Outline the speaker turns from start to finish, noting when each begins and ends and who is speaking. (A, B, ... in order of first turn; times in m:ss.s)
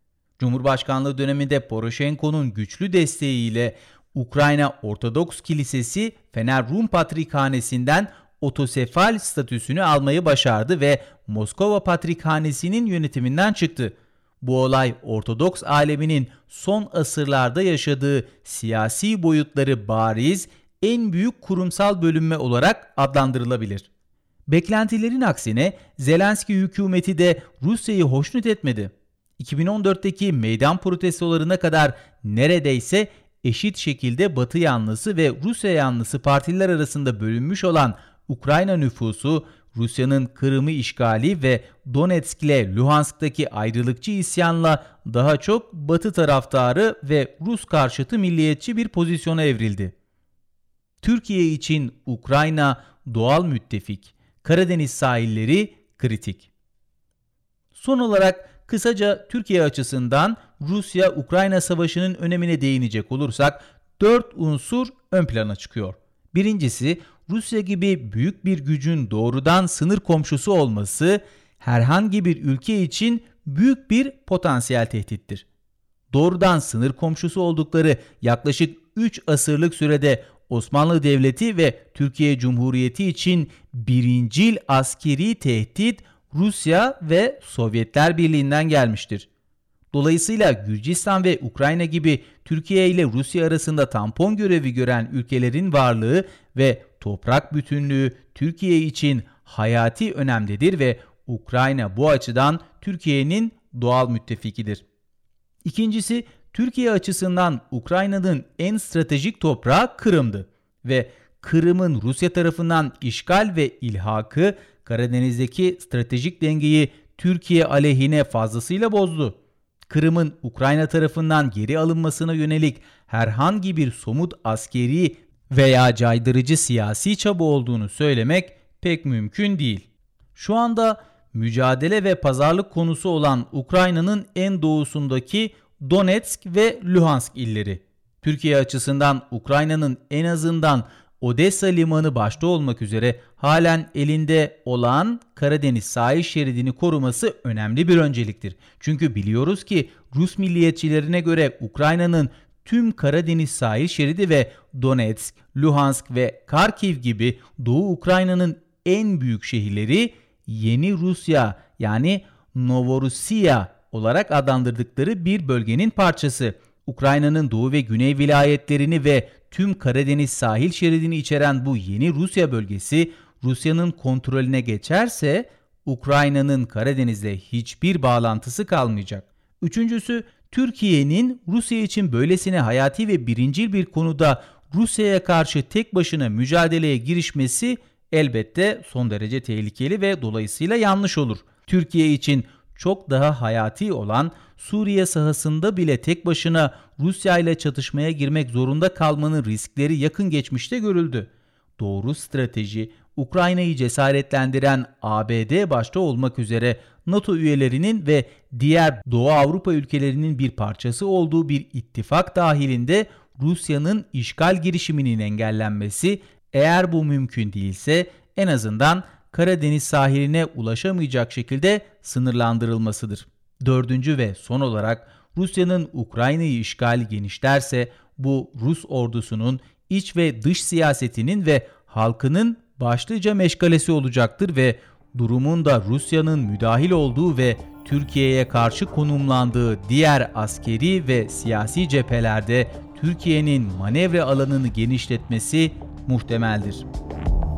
0:00.4-0:23.9 A
0:24.5-0:49.9 A
0:51.0-0:56.5 A
0:57.7-1:15.4 A
1:16.1-1:29.3 A
1:29.9-1:44.8 A
1:45.6-1:59.4 A
1:59.9-4:06.8 A